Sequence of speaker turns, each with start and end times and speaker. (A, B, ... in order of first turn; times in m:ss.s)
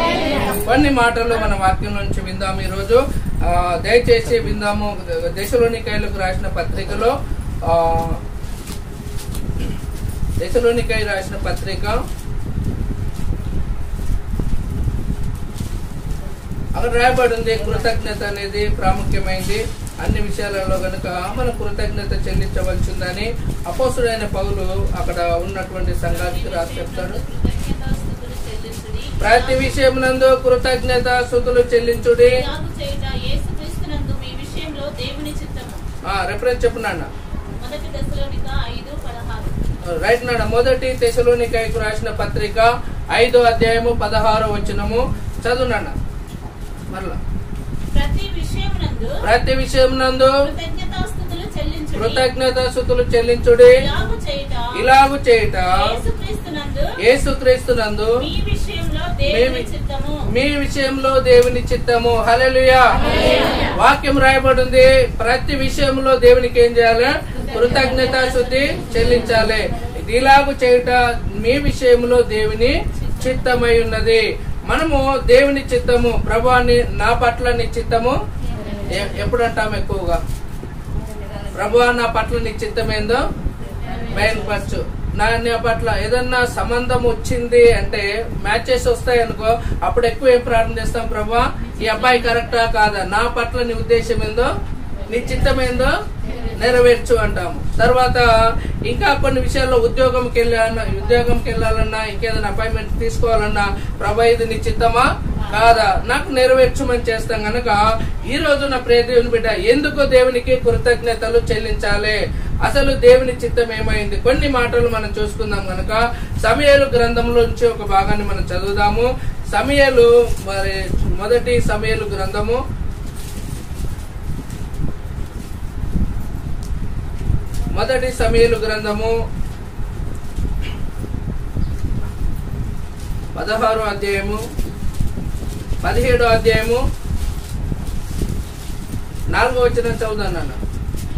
0:00.4-0:08.2 A
0:10.4-0:12.0 A
0:16.7-0:27.2 A
0:26.0-0:29.8 B
0:29.2-0:32.4 A
0:32.2-0:35.8 B
0:36.0-0:37.1 A
0:37.6-0:39.6 B
0:39.8-0:45.9 A
0:46.9-0:47.2 A
0:47.9-0:49.2 B
0:49.2-0:50.4 A
0:50.3-0:52.3 B
0:51.9-0:53.8 A
0:53.6-0:54.8 B
0:54.7-0:56.0 A
0:55.6-0:56.9 B
0:57.0-0:58.2 A
0:58.2-1:00.2 B
0:59.3-0:59.7 A
1:00.3-1:03.0 A
1:03.1-1:03.7 B
1:03.7-1:18.2 A
1:07.5-1:08.9 B
1:12.9-1:13.5 B
1:18.9-1:20.2 A
1:21.5-1:23.2 A
1:24.1-1:34.5 A
1:35.1-1:35.9 A
1:36.5-1:38.3 A
1:38.9-2:02.6 A
2:07.7-2:09.2 A
2:13.3-2:14.4 A
2:15.8-2:16.8 A
2:19.3-2:20.6 A